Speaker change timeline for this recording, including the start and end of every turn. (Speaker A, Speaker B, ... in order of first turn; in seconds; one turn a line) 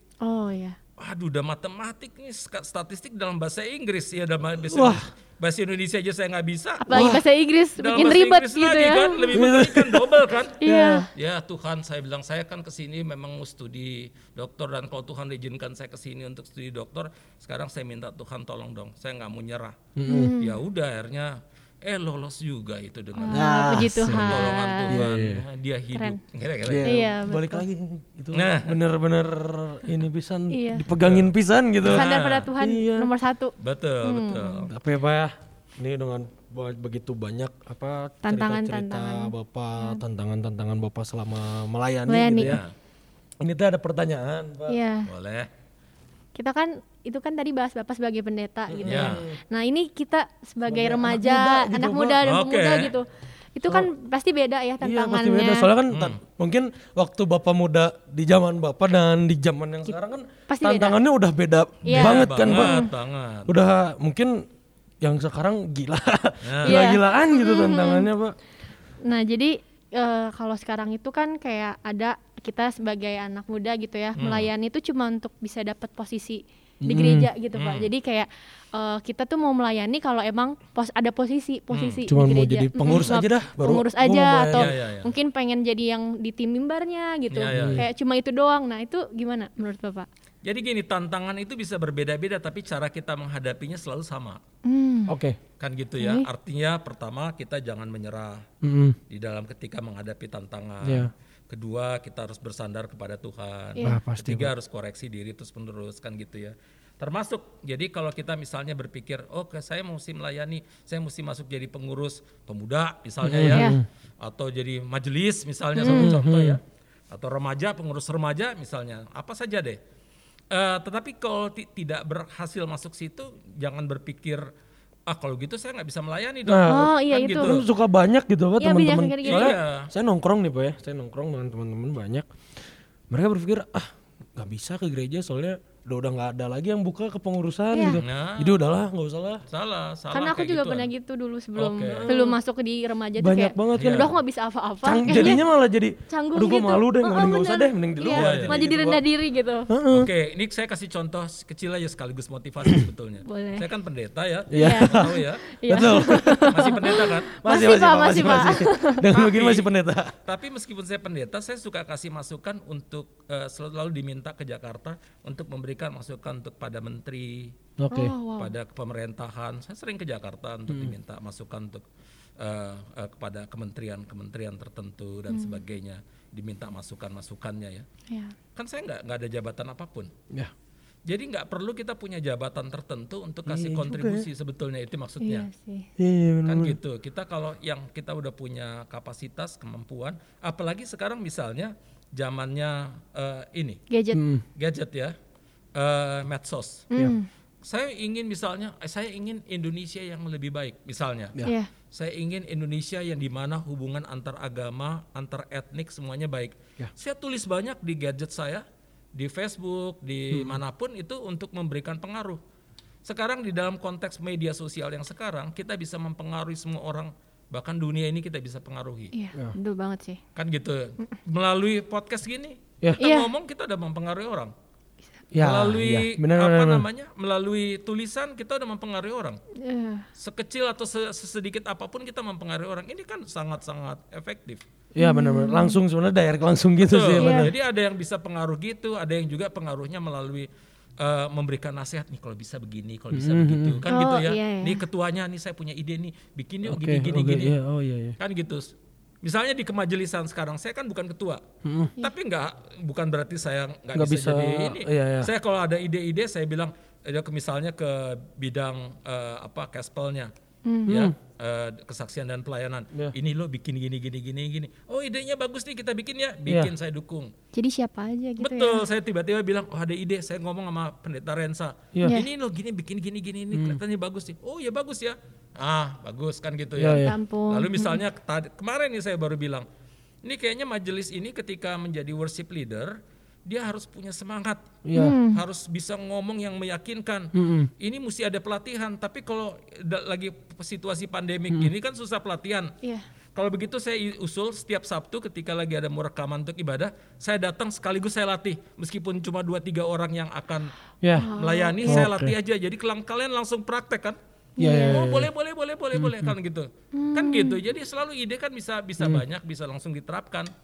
Speaker A: 0.2-0.8
Speaker B: 1.0-7.1
Speaker C: 4.6-5.0
Speaker A: 6.8-9.3
Speaker C: 6.9-7.2
Speaker B: 7.8-19.8
Speaker C: 9.3-11.1
Speaker A: 10.6-11.1
Speaker C: 20.0-20.4
Speaker A: 20.1-20.6
Speaker B: 20.4-27.0
Speaker A: 23.2-25.0
Speaker C: 23.3-25.4
Speaker C: 26.6-33.1
Speaker A: 26.8-27.6
Speaker B: 28.3-28.8
Speaker A: 30.5-30.9
Speaker B: 31.0-31.3
Speaker B: 31.8-32.5
Speaker A: 31.9-34.7
Speaker B: 33.6-34.7
Speaker C: 34.7-42.6
Speaker A: 38.2-40.0
Speaker A: 42.1-42.6
Speaker B: 42.4-42.7
Speaker C: 43.4-44.8
Speaker A: 44.7-45.1
Speaker B: 45.1-45.5
Speaker A: 46.4-55.7
Speaker C: 48.7-49.4
Speaker B: 48.9-49.2
Speaker C: 50.6-52.2
Speaker B: 52.2-53.0
Speaker C: 54.8-62.9
Speaker B: 55.9-56.2
Speaker A: 60.5-61.0
Speaker A: 61.8-62.9
Speaker B: 61.9-63.5
Speaker C: 63.5-64.4
Speaker C: 65.0-68.4
Speaker B: 66.5-66.8
Speaker A: 66.7-68.1
Speaker A: 69.0-90.1
Speaker B: 74.2-74.5
Speaker C: 76.8-77.3
Speaker B: 77.5-77.9
Speaker B: 81.7-82.0
Speaker C: 82.1-84.7
Speaker B: 84.5-85.1
Speaker B: 87.3-87.8
Speaker C: 87.5-87.8
Speaker B: 90.4-94.4
Speaker A: 94.6-95.2
Speaker C: 95.1-95.4
Speaker B: 95.6-98.5
Speaker A: 96.0-96.3
Speaker C: 98.6-99.0
Speaker B: 99.1-119.8
Speaker C: 100.8-101.1
Speaker C: 103.8-104.5
Speaker C: 113.2-113.8
Speaker A: 113.5-113.8
Speaker C: 115.8-116.6
Speaker A: 115.8-116.2
Speaker B: 120.5-124.5
Speaker B: 125.1-127.7
Speaker C: 126.5-132.3
Speaker A: 126.6-127.5
Speaker A: 128.6-129.6
Speaker B: 129.3-129.9
Speaker C: 133.1-139.4
Speaker A: 137.7-138.0
Speaker B: 137.9-138.6
Speaker B: 139.5-140.9
Speaker A: 140.1-145.4
Speaker B: 141.6-142.1
Speaker C: 142.1-142.3
Speaker C: 143.2-144.1
Speaker B: 143.8-144.1
Speaker C: 144.8-149.0
Speaker A: 146.1-149.7
Speaker B: 148.1-148.6
Speaker C: 149.7-150.1
Speaker B: 149.9-157.4
Speaker A: 153.2-153.7
Speaker C: 154.5-160.1
Speaker A: 154.5-159.0
Speaker B: 159.1-159.7
Speaker B: 160.2-167.6
Speaker C: 167.8-168.2
Speaker A: 167.9-168.5
Speaker B: 168.4-171.8
Speaker C: 170.7-170.9
Speaker B: 172.4-177.8
Speaker A: 175.3-175.6
Speaker A: 178.1-178.3
Speaker B: 178.6-180.1
Speaker B: 181.1-185.5
Speaker C: 183.5-184.3
Speaker A: 185.2-185.9
Speaker C: 186.0-186.8
Speaker B: 186.4-193.8
Speaker A: 193.9-194.2
Speaker C: 194.1-194.4
Speaker B: 194.6-195.2
Speaker B: 195.8-196.9
Speaker A: 196.9-197.3
Speaker B: 197.6-201.4
Speaker A: 201.4-201.7
Speaker B: 201.9-212.4
Speaker C: 210.3-210.6
Speaker B: 213.1-219.1
Speaker A: 219.1-220.2
Speaker B: 220.3-224.5
Speaker A: 223.0-223.3
Speaker C: 225.3-226.9
Speaker B: 225.4-229.4
Speaker A: 229.6-230.1
Speaker B: 230.2-234.6
Speaker C: 234.9-237.5
Speaker A: 235.0-235.8
Speaker B: 236.8-240.5
Speaker A: 237.2-237.5
Speaker B: 241.0-247.5
Speaker C: 243.1-243.8
Speaker A: 243.9-244.8
Speaker C: 246.6-248.2
Speaker B: 248.2-251.4
Speaker C: 251.6-251.9
Speaker B: 252.0-260.3
Speaker C: 253.9-255.3
Speaker A: 260.6-261.1
Speaker C: 260.9-261.1
Speaker B: 260.9-267.3
Speaker C: 266.5-266.7
Speaker A: 267.5-268.9
Speaker B: 268.4-279.7
Speaker C: 273.5-273.8
Speaker C: 276.8-277.2
Speaker A: 276.9-278.0
Speaker B: 280.2-292.7
Speaker C: 284.9-285.2
Speaker A: 284.9-285.4
Speaker C: 287.4-287.7
Speaker B: 293.4-300.7
Speaker C: 301.0-301.3
Speaker A: 301.2-302.1
Speaker B: 301.4-304.2
Speaker C: 301.8-302.4
Speaker A: 304.6-305.1
Speaker C: 304.6-305.3
Speaker B: 304.8-310.5
Speaker C: 305.9-306.3
Speaker A: 306.9-307.6
Speaker C: 309.0-309.2